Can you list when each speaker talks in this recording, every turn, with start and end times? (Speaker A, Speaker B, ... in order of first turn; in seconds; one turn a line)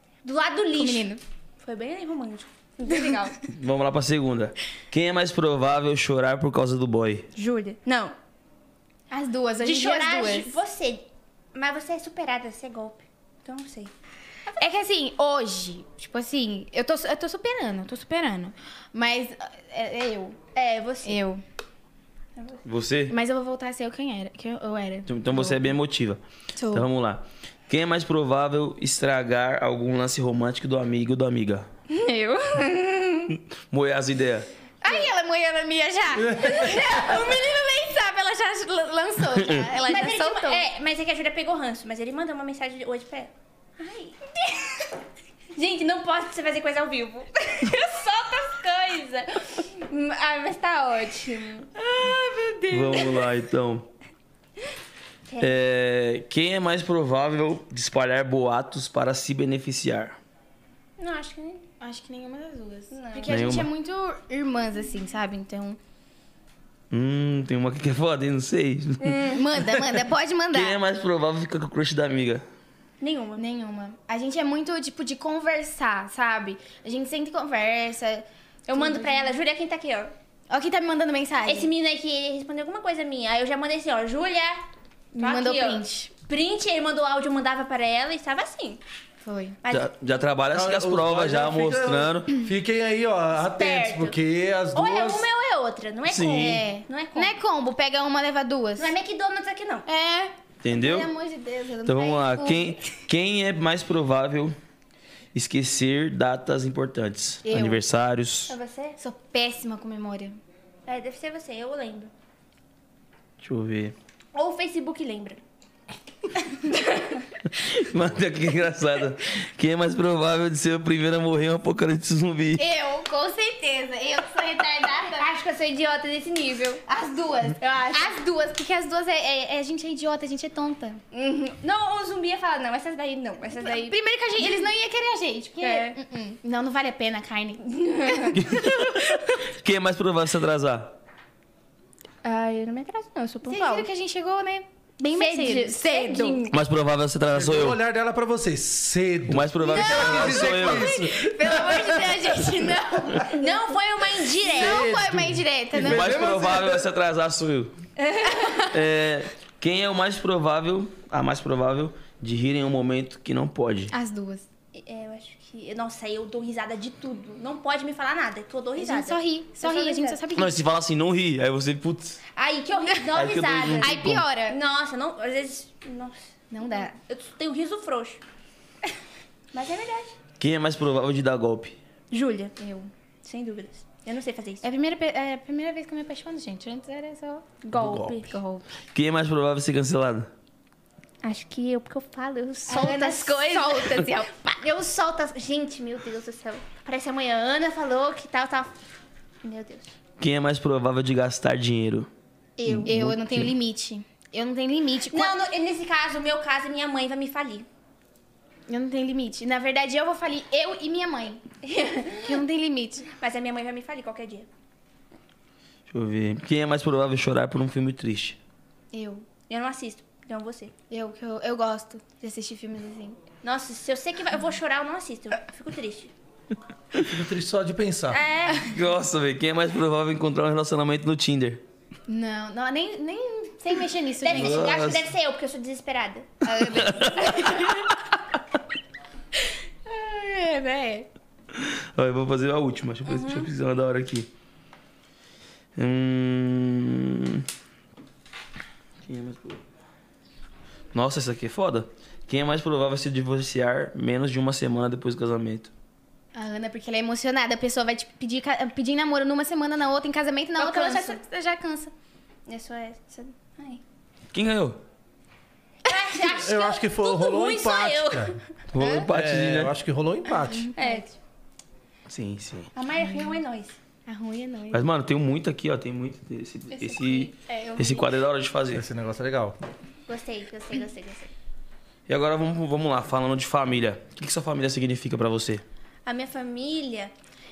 Speaker A: 0.2-3.4
Speaker B: 0.7-1.2
Speaker C: 3.5-7.3
Speaker A: 7.3-8.1
Speaker B: 9.1-10.6
Speaker A: 9.6-13.9
Speaker B: 14.6-20.4
Speaker A: 20.6-21.2
Speaker B: 21.1-21.4
Speaker C: 22.6-23.2
Speaker B: 23.1-25.7
Speaker C: 25.1-26.2
Speaker B: 26.6-26.9
Speaker C: 26.7-31.7
Speaker B: 31.9-32.8
Speaker A: 32.8-33.3
Speaker C: 33.7-34.5
Speaker B: 34.8-40.6
Speaker A: 34.9-35.1
Speaker D: 36.2-36.7
Speaker A: 36.4-37.4
Speaker C: 39.4-39.6
Speaker A: 39.9-44.6
Speaker A: 45.5-53.3
Speaker C: 52.7-53.9
Speaker C: 55.4-60.2
Speaker A: 61.0-61.6
Speaker B: 61.8-65.8
Speaker A: 62.9-63.4
Speaker C: 63.3-63.7
Speaker C: 66.9-69.2
Speaker A: 69.0-69.5
Speaker B: 69.2-70.8
Speaker C: 70.5-72.5
Speaker A: 73.0-73.4
Speaker B: 73.4-79.3
Speaker A: 78.7-80.1
Speaker B: 80.5-81.7
Speaker A: 81.5-84.6
Speaker B: 85.1-86.1
Speaker A: 85.2-88.8
Speaker B: 89.2-89.6
Speaker A: 89.6-89.9
Speaker C: 89.7-92.3
Speaker D: 90.5-95.3
Speaker A: 93.4-94.2
Speaker A: 94.7-97.3
Speaker C: 96.1-96.6
Speaker B: 96.4-98.9
Speaker A: 98.8-99.9
Speaker B: 99.9-102.9
Speaker C: 100.6-101.1
Speaker C: 101.8-104.6
Speaker C: 105.3-108.5
Speaker B: 107.5-107.8
Speaker A: 108.5-109.0
Speaker B: 109.0-110.4
Speaker A: 110.9-112.1
Speaker C: 113.4-114.0
Speaker A: 114.3-115.4
Speaker A: 116.7-117.2
Speaker C: 117.6-122.6
Speaker B: 122.6-125.3
Speaker A: 125.1-126.8
Speaker B: 126.9-131.0
Speaker A: 127.6-128.2
Speaker A: 131.1-134.7
Speaker B: 133.5-138.4
Speaker A: 135.6-136.0
Speaker A: 137.6-138.4
Speaker C: 138.3-140.9
Speaker A: 142.2-143.9
Speaker B: 143.4-146.5
Speaker A: 145.1-146.6
Speaker C: 146.5-147.8
Speaker D: 147.3-152.2
Speaker C: 149.3-150.9
Speaker B: 149.7-153.4
Speaker D: 153.0-153.2
Speaker A: 153.3-154.9
Speaker D: 154.5-156.9
Speaker B: 154.5-156.2
Speaker C: 155.8-157.7
Speaker A: 158.0-158.6
Speaker B: 158.4-158.7
Speaker C: 158.7-163.9
Speaker B: 163.9-164.4
Speaker A: 164.7-170.2
Speaker B: 168.8-170.6
Speaker C: 170.4-172.2
Speaker A: 172.4-178.2
Speaker C: 173.1-174.2
Speaker B: 173.8-174.6
Speaker B: 176.5-176.9
Speaker A: 179.5-180.2
Speaker C: 180.4-181.8
Speaker A: 182.1-184.7
Speaker B: 184.6-188.7
Speaker A: 187.6-188.4
Speaker C: 188.9-190.3
Speaker A: 191.2-198.8
Speaker B: 192.7-194.5
Speaker A: 199.4-199.9
Speaker C: 200.2-202.1
Speaker B: 202.6-205.4
Speaker C: 202.7-203.5
Speaker A: 205.1-207.7
Speaker B: 208.7-211.4
Speaker A: 211.6-212.4
Speaker B: 212.2-213.1
Speaker A: 213.1-214.5
Speaker C: 215.9-218.4
Speaker B: 218.9-219.3
Speaker A: 219.5-220.7
Speaker B: 220.9-223.2
Speaker A: 223.4-226.1
Speaker D: 227.1-228.2
Speaker A: 228.1-228.7
Speaker C: 228.6-231.6
Speaker B: 232.1-234.8
Speaker A: 234.2-236.6
Speaker C: 234.3-235.1
Speaker B: 236.4-237.8
Speaker C: 236.7-237.8
Speaker A: 237.2-237.7
Speaker B: 239.9-241.1
Speaker A: 239.9-240.8
Speaker C: 241.6-244.3
Speaker A: 243.1-243.5
Speaker C: 245.8-247.4
Speaker C: 249.1-249.6
Speaker C: 250.9-255.7
Speaker B: 256.4-261.9
Speaker A: 260.6-261.2
Speaker A: 262.5-263.8
Speaker C: 264.3-264.8
Speaker A: 265.9-268.4
Speaker D: 266.3-268.4
Speaker C: 268.7-269.7
Speaker B: 268.8-269.1
Speaker D: 269.1-270.7
Speaker B: 270.4-271.2
Speaker A: 270.8-271.1
Speaker C: 272.1-272.7
Speaker A: 272.7-273.8
Speaker B: 273.0-273.4
Speaker B: 274.1-274.9
Speaker C: 274.7-278.9
Speaker B: 276.8-277.8
Speaker A: 277.0-278.1
Speaker D: 278.7-279.6
Speaker A: 280.1-281.3
Speaker C: 282.1-285.6
Speaker A: 286.1-287.1